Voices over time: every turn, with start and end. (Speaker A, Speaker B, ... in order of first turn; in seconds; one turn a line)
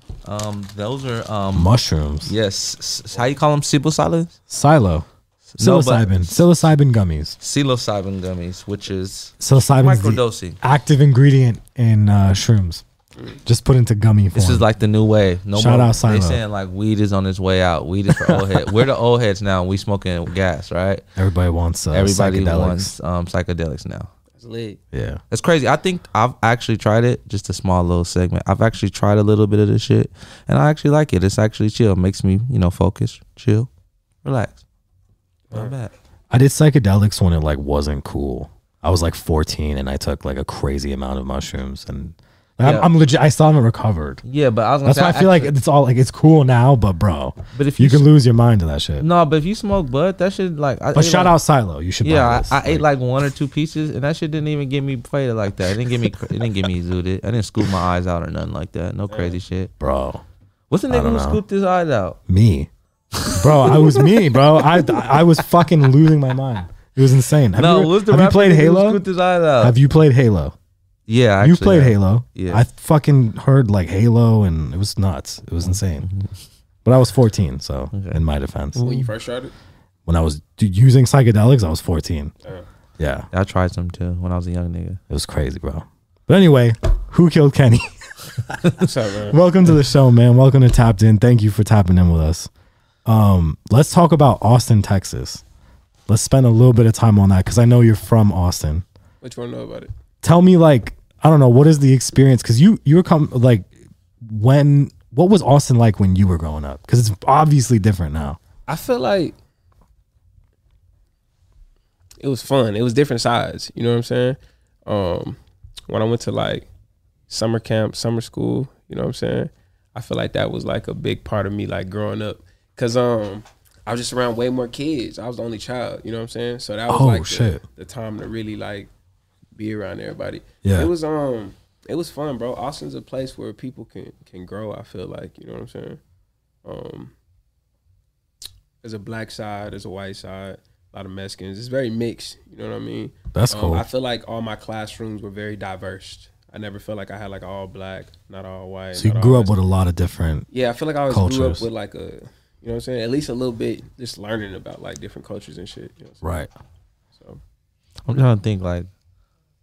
Speaker A: 0.2-1.7
Speaker B: 1.5-2.4
Speaker A: 2.3-4.4
Speaker B: 4.5-5.1
Speaker A: 5.5-6.4
Speaker B: 5.6-7.4
Speaker A: 7.4-10.6
Speaker B: 9.4-12.8
Speaker B: 13.5-14.7
Speaker A: 14.3-21.0
Speaker B: 15.5-16.4
Speaker B: 18.1-18.9
Speaker B: 21.2-22.9
Speaker A: 21.9-24.1
Speaker C: 24.4-24.8
Speaker B: 24.9-25.2
Speaker A: 25.3-33.7
Speaker A: 34.2-34.6
Speaker C: 35.5-35.8
Speaker A: 35.5-35.9
Speaker B: 36.3-44.2
Speaker A: 42.6-42.9
Speaker A: 44.2-45.5
Speaker B: 44.8-49.1
Speaker A: 47.5-48.1
Speaker A: 49.0-51.4
Speaker B: 50.9-52.9
Speaker A: 52.0-59.7
Speaker C: 59.1-59.4
Speaker B: 59.8-60.2
Speaker A: 60.7-62.2
Speaker B: 60.9-61.4
Speaker B: 62.3-62.7
Speaker A: 63.1-64.1
Speaker B: 63.3-69.0
Speaker A: 67.6-69.8
Speaker B: 69.6-70.5
Speaker A: 71.1-72.6
Speaker B: 71.4-76.1
Speaker A: 75.6-76.3
Speaker B: 76.8-78.8
Speaker A: 77.9-78.2
Speaker A: 78.8-79.1
Speaker C: 78.8-79.5
Speaker B: 80.1-82.3
Speaker B: 83.0-83.3
Speaker A: 83.3-85.0
Speaker B: 85.1-92.5
Speaker C: 88.8-89.4
Speaker B: 93.1-95.4
Speaker B: 96.1-98.8
Speaker C: 99.2-99.9
Speaker B: 100.2-108.4
Speaker C: 108.7-109.4
Speaker C: 112.2-116.7
Speaker C: 117.3-128.9
Speaker B: 126.9-127.6
Speaker C: 129.6-136.0
Speaker B: 130.6-130.9
Speaker C: 136.6-137.1
Speaker C: 138.8-149.6
Speaker B: 143.3-143.9
Speaker B: 149.0-150.5
Speaker C: 150.5-156.3
Speaker B: 151.1-151.7
Speaker B: 156.2-156.5
Speaker C: 157.2-157.4
Speaker A: 158.1-158.9